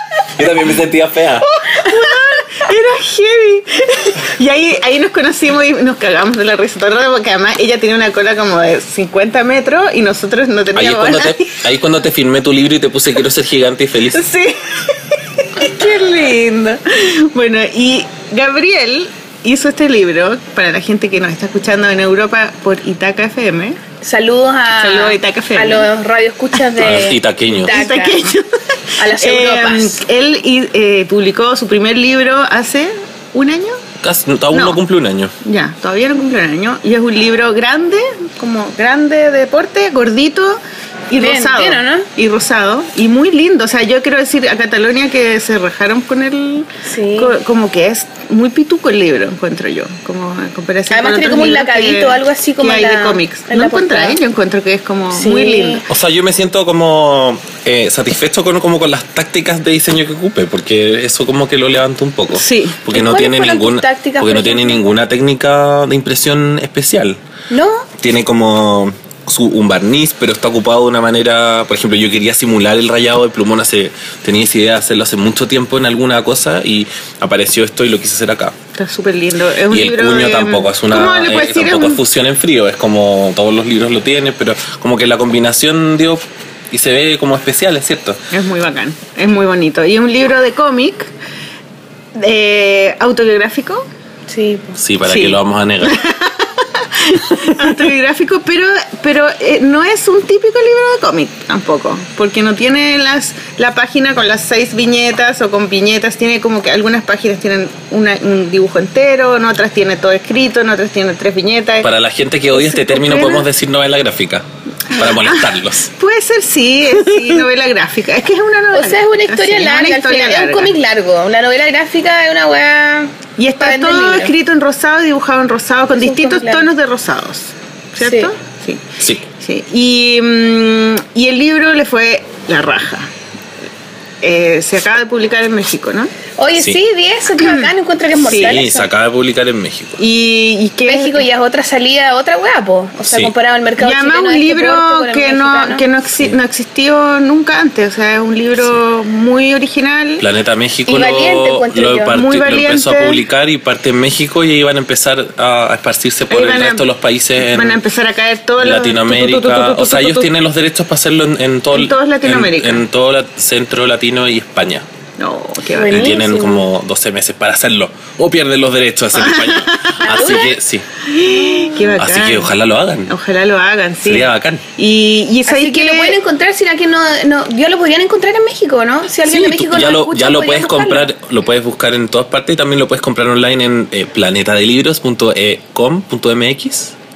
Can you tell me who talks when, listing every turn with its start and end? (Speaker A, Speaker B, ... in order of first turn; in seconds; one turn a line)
Speaker A: 0.3-1.5
Speaker B: 1.6-11.6
Speaker A: 10.7-14.2
Speaker B: 14.1-23.8
Speaker C: 24.0-28.2
Speaker B: 24.7-25.9
Speaker A: 26.8-27.7
Speaker B: 27.6-33.8
Speaker C: 29.0-30.0
Speaker A: 34.0-35.3
Speaker B: 34.5-34.8
Speaker B: 35.4-55.9
Speaker C: 41.2-42.0
Speaker C: 46.8-47.3
Speaker C: 50.9-54.2
Speaker C: 55.1-55.8
Speaker A: 55.9-67.2
Speaker B: 62.3-62.8
Speaker C: 62.9-64.8
Speaker C: 67.5-67.9
Speaker A: 68.0-78.5
Speaker B: 78.8-82.0
Speaker A: 79.7-88.2
Speaker B: 88.3-91.1
Speaker B: 92.1-93.8
Speaker C: 94.3-94.8
Speaker A: 94.8-96.0
Speaker B: 95.0-111.9
Speaker A: 111.8-115.9
Speaker B: 112.5-113.5
Speaker B: 114.9-120.7
Speaker C: 118.7-124.3
Speaker B: 123.4-128.8
Speaker C: 125.9-126.7
Speaker C: 128.0-128.3
Speaker A: 129.0-129.2
Speaker B: 129.4-133.1
Speaker B: 134.2-136.1
Speaker C: 136.4-138.9
Speaker B: 137.4-137.7
Speaker B: 138.2-138.6
Speaker A: 138.3-140.0
Speaker B: 140.0-141.2
Speaker C: 140.8-145.8
Speaker A: 143.0-143.3
Speaker B: 143.8-150.2
Speaker A: 150.2-157.8
Speaker C: 150.9-152.2
Speaker B: 152.1-153.2
Speaker B: 156.3-156.8
Speaker B: 157.4-160.3
Speaker A: 158.6-164.8
Speaker B: 161.7-162.8
Speaker B: 165.2-166.2
Speaker C: 165.7-166.7
Speaker A: 165.9-170.8
Speaker B: 169.1-169.9
Speaker C: 170.0-170.5
Speaker B: 171.1-172.5
Speaker A: 172.0-173.1
Speaker B: 173.1-176.2
Speaker A: 174.0-174.6
Speaker C: 175.4-181.1
Speaker A: 179.2-186.9